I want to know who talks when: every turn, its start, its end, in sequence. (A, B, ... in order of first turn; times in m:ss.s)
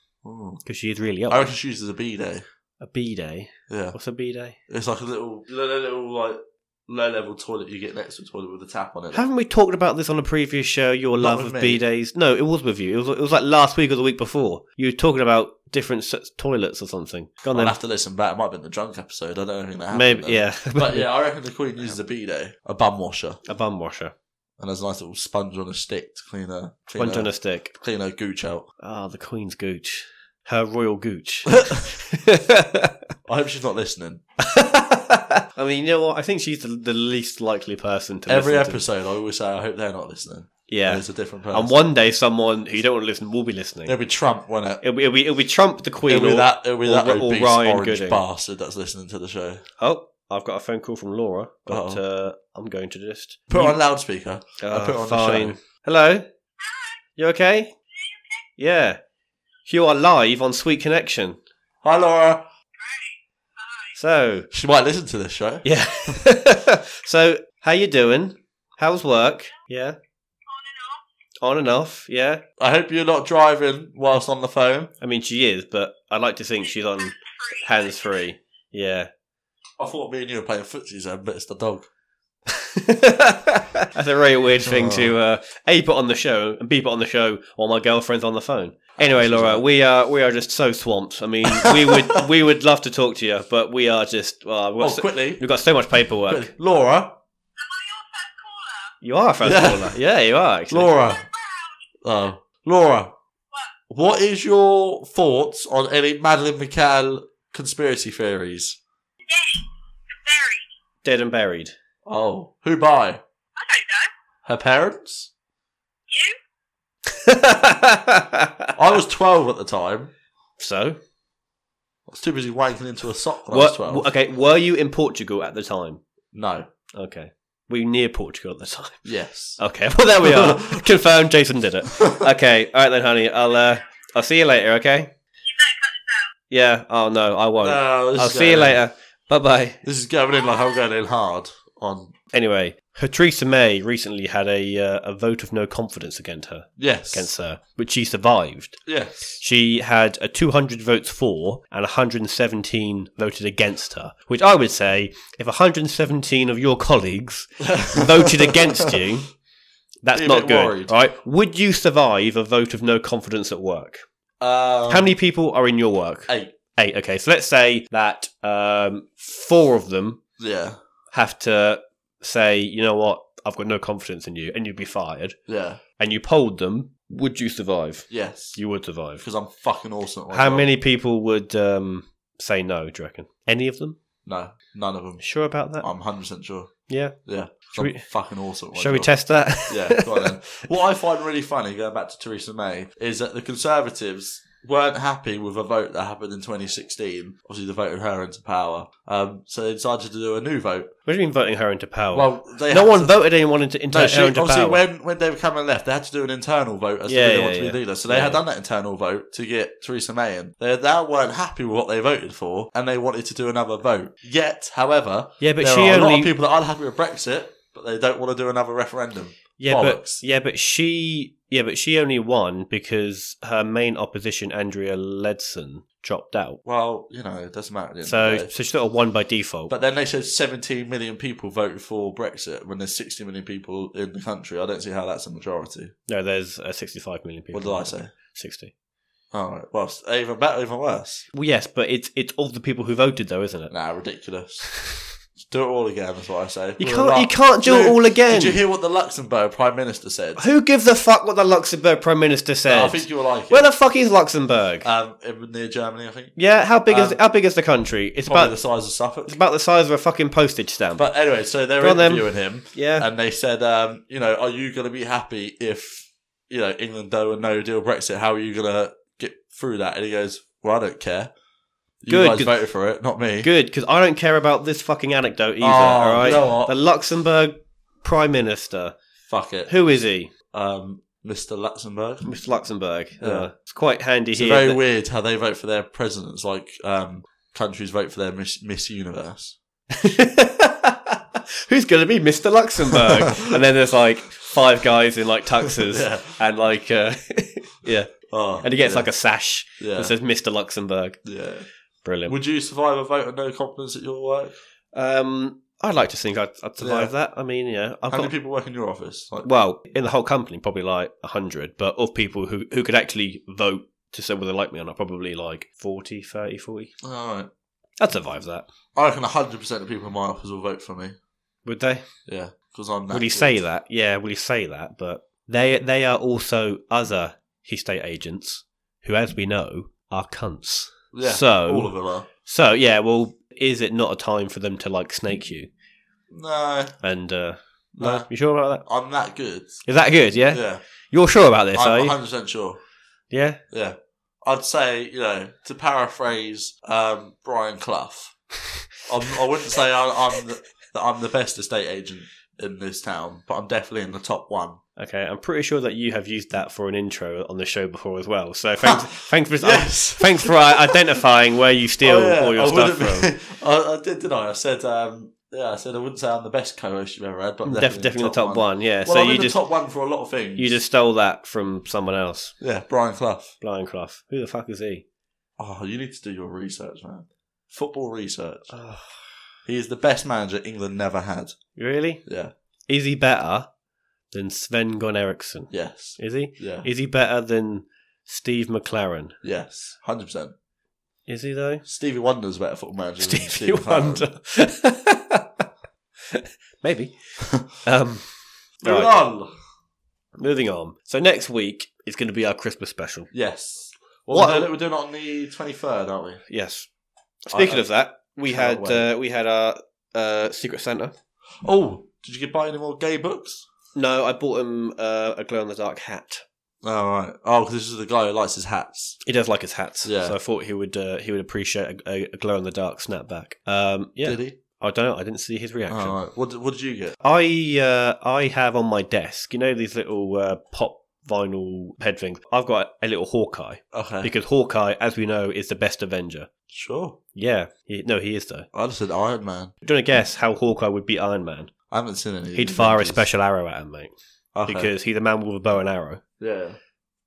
0:00.2-0:00.6 A
0:00.6-0:01.5 B
0:01.3-0:02.4 A
0:02.8-0:04.6 B
0:03.7-0:04.0 A
0:04.7-0:09.2 A
0:09.1-0:17.8 B
0:11.2-0:11.8 A
0:17.5-0:23.4 A
0:19.9-0:21.1 B
0:23.4-0:24.1 B
0:24.6-0:28.7 A
0:27.0-0:27.7 B
0:28.8-0:33.0 B
0:33.2-0:34.2 A
0:34.4-0:38.8 B
0:38.3-0:41.8 A
0:40.7-0:43.9 B
0:43.8-0:44.8 A
0:44.8-0:48.2 B
0:46.1-0:49.6 A
0:49.8-0:53.8 B
0:51.7-0:52.0 A
0:53.5-0:55.6 A
0:54.6-0:56.3 B
0:56.6-0:57.0 C
0:57.2-0:57.7 B
0:57.9-0:58.4 C
0:58.6-0:59.0 B
0:59.7-1:01.4 B
1:01.8-1:02.4 A
1:02.8-1:03.9 C
1:03.9-1:04.5 B
1:04.5-1:05.6 A
1:05.6-1:10.0 B
1:10.5-1:11.0 C
1:11.4-1:12.4 B
1:12.6-1:14.9 A
1:15.0-1:19.1 B
1:16.6-1:18.3 C
1:19.8-1:21.9 A
1:22.5-1:36.5 B
1:24.6-1:25.1 A
1:29.0-1:29.6 A
1:31.5-1:32.2 A
1:34.8-1:35.4 A
1:36.3-1:37.2 A
1:37.6-1:38.9 C
1:39.0-1:40.9 B
1:39.4-1:39.9 A
1:40.7-1:41.2 A
1:41.0-1:41.8 C
1:42.0-1:43.1 A
1:43.9-1:48.8 A
1:49.3-1:50.6 C
1:51.0-1:51.7 B
1:52.0-1:53.2 A
1:53.6-1:54.1 C
1:54.4-1:55.3 A
1:56.1-1:56.4 C
1:57.1-1:58.7 B
1:58.8-2:00.1 A
2:00.6-2:01.0 B
2:02.1-2:04.1 A
2:03.5-2:06.0 B
2:06.3-2:06.7 A
2:07.0-2:09.1 B
2:09.0-2:09.6 A
2:09.6-2:15.1 B
2:10.2-2:10.8 A
2:11.9-2:12.3 A
2:15.4-2:16.3 C
2:16.5-2:19.8 B
2:17.6-2:18.8 A
2:19.8-2:22.1 A
2:20.4-2:20.8 C
2:22.3-2:28.8 B
2:26.8-2:27.3 A
2:28.8-2:29.4 A
2:29.4-2:39.3 B
2:37.6-2:39.1 A
2:40.0-2:44.0 B
2:40.2-2:40.9 A
2:44.4-2:45.1 A
2:44.9-2:50.2 B
2:46.3-2:46.5 A
2:50.4-2:50.8 A
2:51.1-2:55.4 B
2:55.5-2:55.8 A
2:56.0-2:59.2 B
2:58.1-2:58.6 A
2:59.2-3:00.7 A
3:00.3-3:04.0 B
3:04.2-3:05.2 A
3:05.2-3:05.9 B
3:05.8-3:06.7 A
3:06.9-3:07.2 B
3:07.2-3:09.1 A
3:07.7-3:08.0 B
3:08.7-3:10.6 B
3:09.7-3:20.9 A
3:21.1-3:24.8 B
3:22.1-3:23.1 A
3:23.9-3:40.2 A
3:27.1-3:28.4 B
3:35.4-3:36.3 B
3:39.6-3:46.6 B
3:46.6-3:48.5 A
3:48.0-3:49.7 B
3:49.7-3:55.9 A
3:56.1-3:58.7 B
3:57.5-3:58.1 A
3:59.3-4:01.3 A
4:01.3-4:03.7 B
4:03.7-4:04.6 A
4:04.8-4:05.0 B
4:05.5-4:10.4 A
4:06.8-4:08.6 B
4:10.4-4:14.9 B
4:12.7-4:13.7 A
4:14.8-4:16.3 A
4:16.4-4:18.5 B
4:16.9-4:17.2 A
4:18.2-4:19.4 A
4:19.3-4:21.0 B
4:21.0-4:31.3 A
4:21.8-4:23.1 B
4:32.0-4:33.5 A
4:32.1-4:32.6 B
4:33.4-4:38.9 B
4:35.6-4:36.7 A
4:39.3-4:39.7 A
4:39.7-4:40.3 B
4:40.5-4:42.3 A
4:42.2-4:44.8 B
4:43.2-4:43.5 A
4:44.3-4:49.6 A
4:49.9-5:01.2 B
4:52.9-4:53.6 A
4:55.6-4:56.3 A
4:58.3-4:59.1 A
4:59.8-5:00.1 A
5:01.2-5:01.6 A
5:02.0-5:02.4 B
5:02.2-5:04.6 A
5:04.9-5:08.3 B
5:06.8-5:07.1 A
5:08.1-5:09.5 A
5:09.4-5:16.9 B
5:17.0-5:17.5 A
5:18.0-5:18.7 B
5:18.9-5:21.2 A
5:21.6-5:22.0 B
5:22.3-5:23.6 A
5:23.1-5:31.9 B
5:31.1-5:32.3 A
5:32.4-5:35.7 B
5:36.3-5:37.0 A
5:37.0-5:38.8 B
5:38.0-5:38.3 A
5:38.8-5:39.8 A
5:39.8-5:42.2 B
5:40.5-5:40.8 A
5:41.7-5:42.8 A
5:43.3-5:43.6 B
5:43.7-5:48.3 A
5:49.1-5:54.8 A
5:55.0-6:03.3 B
5:58.8-6:01.0 A
6:02.0-6:10.7 A
6:07.6-6:09.6 B
6:10.6-6:12.5 B
6:12.6-6:13.5 A
6:13.6-6:15.0 B
6:15.6-6:18.7 A
6:18.7-6:19.3 B
6:19.6-6:21.6 A
6:21.8-6:22.2 B
6:22.2-6:22.5 A
6:22.9-6:23.7 B
6:24.3-6:29.4 B
6:25.7-6:26.9 A
6:29.4-6:30.5 A
6:31.3-6:31.8 B
6:31.8-6:34.2 A
6:33.2-6:35.6 B
6:36.3-6:39.1 B
6:38.8-6:39.5 A
6:40.4-6:43.3 B
6:43.3-6:46.4 A
6:44.3-6:44.7 B
6:46.5-6:46.9 B
6:47.4-6:51.1 B
6:47.5-6:47.9 A
6:48.4-6:49.1 A
6:51.6-6:53.6 A
6:53.9-6:56.4 B
6:56.8-6:59.2 A
6:59.2-7:06.2 B
7:00.0-7:00.4 A
7:04.2-7:04.6 A
7:05.9-7:07.2 A
7:07.2-7:16.5 B
7:13.9-7:14.3 A
7:16.7-7:17.2 A
7:17.3-7:18.7 B
7:18.7-7:19.7 A
7:19.8-7:21.7 B
7:21.9-7:23.2 A
7:22.5-7:24.1 B
7:24.5-7:24.9 A
7:24.6-7:26.2 B
7:26.4-7:26.8 A